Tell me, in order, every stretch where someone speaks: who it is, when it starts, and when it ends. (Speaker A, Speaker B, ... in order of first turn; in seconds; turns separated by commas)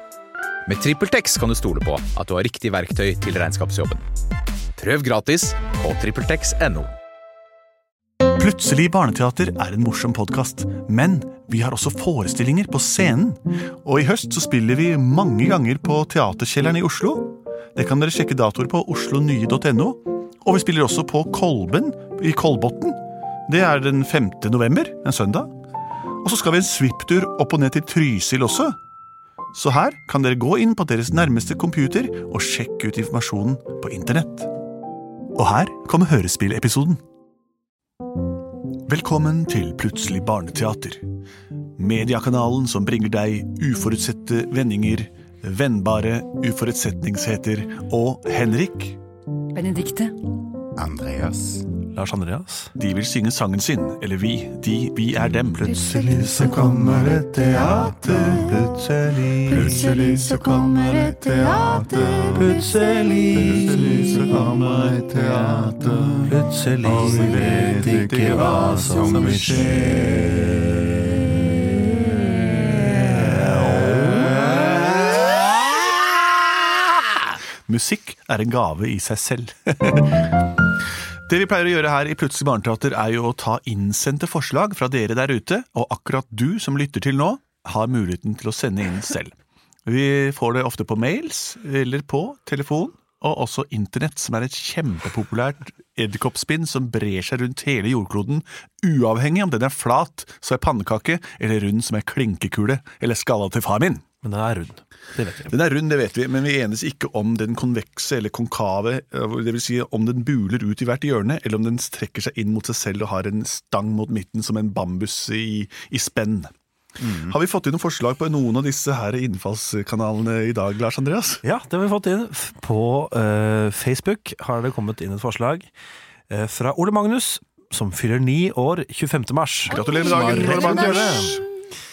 Speaker A: 0.7-4.0, Speaker A: 4.8-6.9, Speaker B: 8.4-25.5, Speaker B: 26.2-28.8, Speaker B: 29.5-34.5, Speaker B: 35.3-37.0, Speaker B: 38.9-41.0, Speaker B: 41.8-49.0, Speaker C: 49.5-50.1, Speaker D: 50.8-51.7, Speaker E: 51.9-52.7, Speaker B: 52.8-56.6, Speaker C: 55.6-56.9, Speaker E: 55.7-59.9, Speaker D: 56.6-57.2, Speaker C: 57.5-58.5, Speaker B: 57.8-58.5, Speaker C: 59.5-62.6, Speaker D: 59.5-62.6, Speaker E: 62.2-63.8, Speaker D: 63.4-70.0, Speaker E: 66.3-70.3, Speaker B: 67.0-69.9, Speaker B: 73.6-74.8, Speaker B: 77.7-80.2, Speaker B: 81.3-89.3, Speaker B: 89.8-104.0, Speaker E: 104.2-105.5, Speaker B: 105.5-116.5, Speaker D: 117.0-117.3, Speaker B: 117.1-121.4, Speaker E: 121.4-125.7, Speaker E: 126.3-131.4, Speaker B: 129.7-131.4, Speaker C: 129.7-131.3